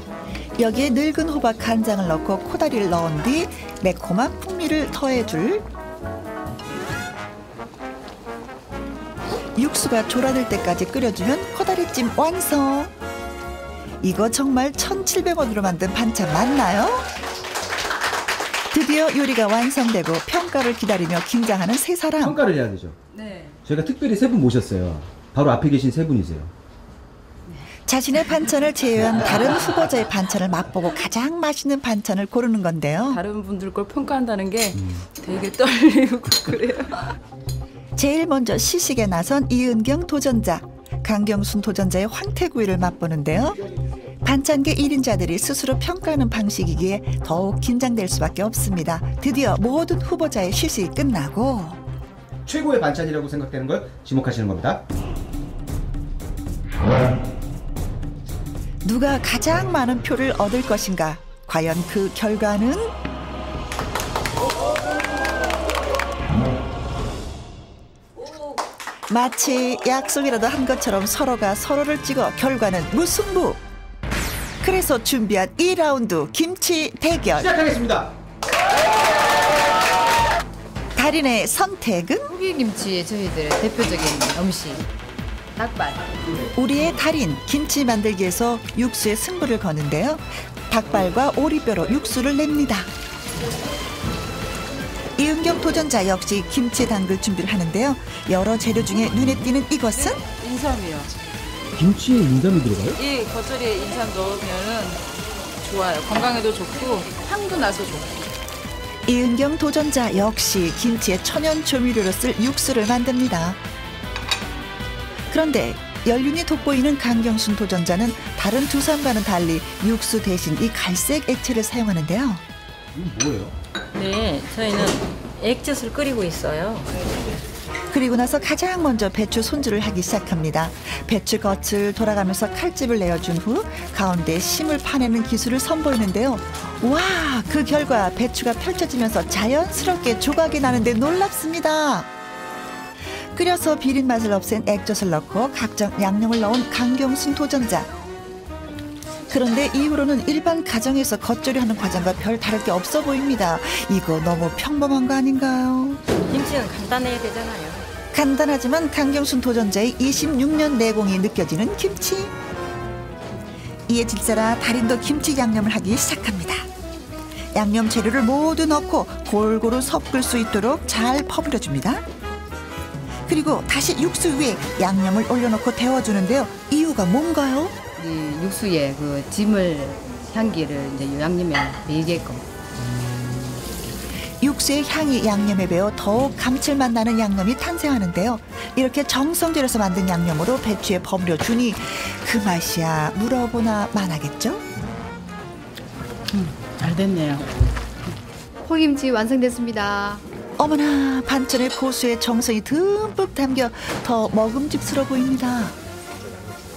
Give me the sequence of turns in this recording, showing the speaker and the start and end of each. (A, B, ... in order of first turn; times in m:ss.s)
0:00.6-0:05.6 A
0:09.6-0:12.9 A
0:14.0-0:17.1 A
0:18.7-0:22.4 A
0:22.2-0:23.0 B
0:23.1-0:23.5 C
0:23.6-0:26.5 B
0:27.9-0:33.2 A
0:33.1-0:37.2 C
0:38.0-0:43.6 A
0:44.2-0:51.8 A
0:52.5-0:54.8 B
0:58.8-1:02.9 A
1:09.1-1:13.6 A
1:14.6-1:17.5 A
1:17.4-1:18.1 B
1:21.0-1:22.3 A
1:22.2-1:24.8 D
1:25.6-1:26.2 D
1:26.5-1:32.9 A
1:35.2-1:40.2 A
1:40.0-1:41.1 C
1:41.8-1:43.0 B
1:43.0-1:45.0 C
1:45.6-1:48.3 C
1:49.1-1:53.6 A
1:55.3-2:02.4 A
2:03.0-2:03.6 B
2:03.9-2:06.9 E
2:07.9-2:22.1 A
2:23.1-2:27.9 A
2:29.3-2:36.0 A
2:36.2-2:37.9 E
2:38.1-2:42.3 A
2:43.9-2:46.7 A
2:47.5-2:52.0 A
2:53.3-2:57.8 A
2:58.0-3:02.4 D
3:04.4-3:14.6 A
3:16.3-3:17.4 C
3:18.7-3:20.2 D
3:20.6-3:25.8 A